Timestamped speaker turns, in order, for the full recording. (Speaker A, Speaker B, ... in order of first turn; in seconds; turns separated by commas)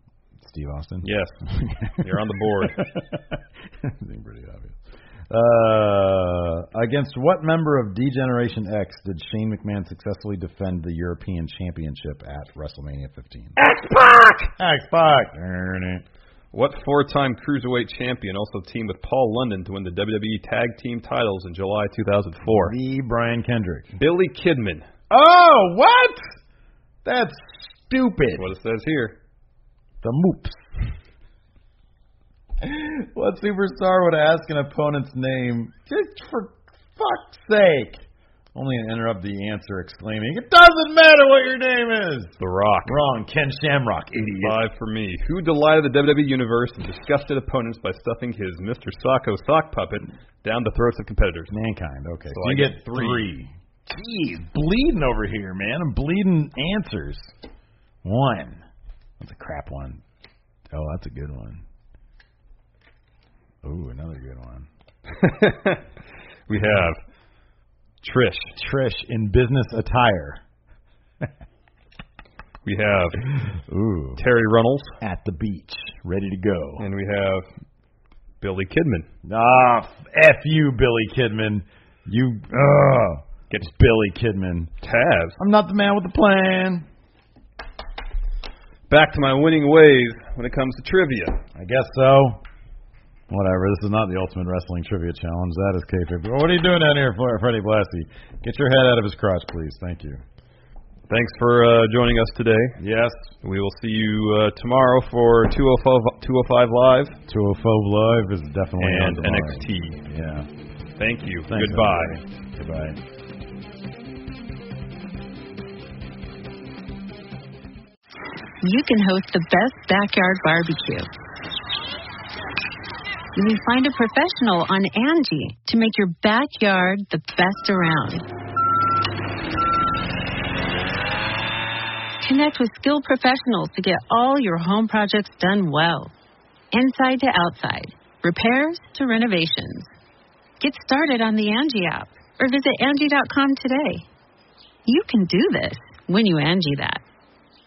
Speaker A: 0.4-16.0, Speaker B: 1.0-1.4, Speaker B: 1.9-3.0, Speaker B: 16.5-22.7, Speaker A: 22.4-24.0, Speaker B: 24.0-24.9, Speaker A: 25.1-26.3, Speaker A: 27.0-28.5, Speaker B: 28.4-29.2, Speaker A: 30.0-30.6, Speaker A: 32.6-38.0, Speaker A: 38.5-44.6, Speaker B: 42.4-43.0, Speaker B: 44.4-51.5, Speaker A: 51.5-57.3, Speaker B: 52.3-53.3, Speaker A: 58.0-58.6, Speaker A: 59.2-60.0, Speaker A: 60.7-61.6, Speaker A: 63.6-64.7, Speaker B: 65.1-65.8, Speaker B: 66.5-67.0, Speaker B: 68.0-68.5, Speaker A: 68.5-70.4, Speaker B: 72.6-73.2, Speaker A: 73.4-74.2, Speaker B: 74.2-74.9, Speaker A: 75.0-76.9, Speaker B: 76.8-77.5, Speaker B: 78.4-79.1, Speaker A: 79.2-84.7, Speaker B: 84.8-85.4, Speaker A: 85.4-86.8, Speaker B: 88.9-91.4, Speaker A: 91.5-92.4, Speaker A: 93.3-100.2, Speaker B: 101.1-102.8, Speaker A: 102.8-103.3, Speaker B: 103.4-107.2, Speaker A: 107.3-110.5, Speaker B: 108.8-110.0, Speaker B: 111.0-112.2, Speaker A: 111.5-113.0, Speaker C: 118.6-121.1, Speaker C: 123.3-128.2, Speaker C: 132.2-136.1, Speaker C: 136.7-139.9, Speaker C: 140.6-144.1, Speaker C: 144.8-147.0